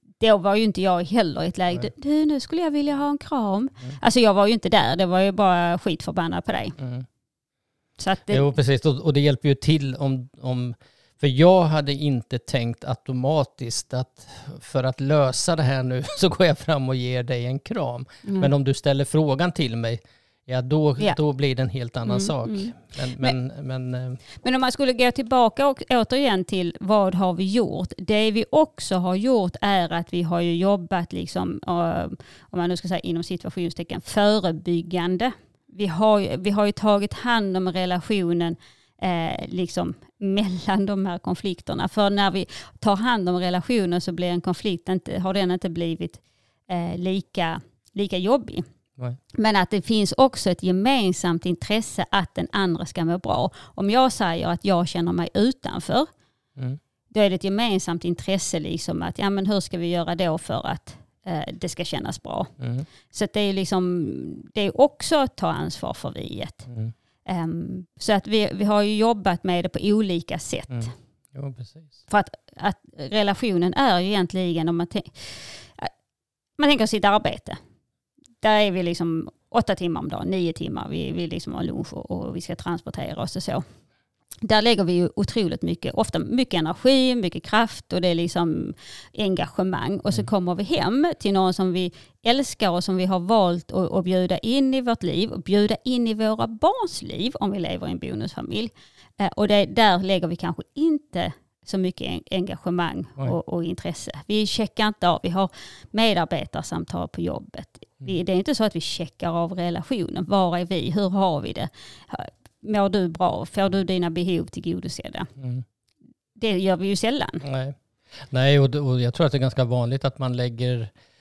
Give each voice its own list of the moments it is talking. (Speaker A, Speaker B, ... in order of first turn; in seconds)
Speaker A: 0.2-6.8, 8.0-8.5, 18.2-18.5, 22.1-23.3, 24.4-48.6, 49.3-56.1, 57.1-62.5, 63.1-66.7, 67.2-70.9, 72.1-75.9, 76.6-77.6, 78.4-83.6, 84.4-115.3, 116.4-117.4
Speaker B: 6.8-7.1, 8.3-24.2, 62.6-62.9, 70.7-72.0, 115.4-115.6, 117.4-120.9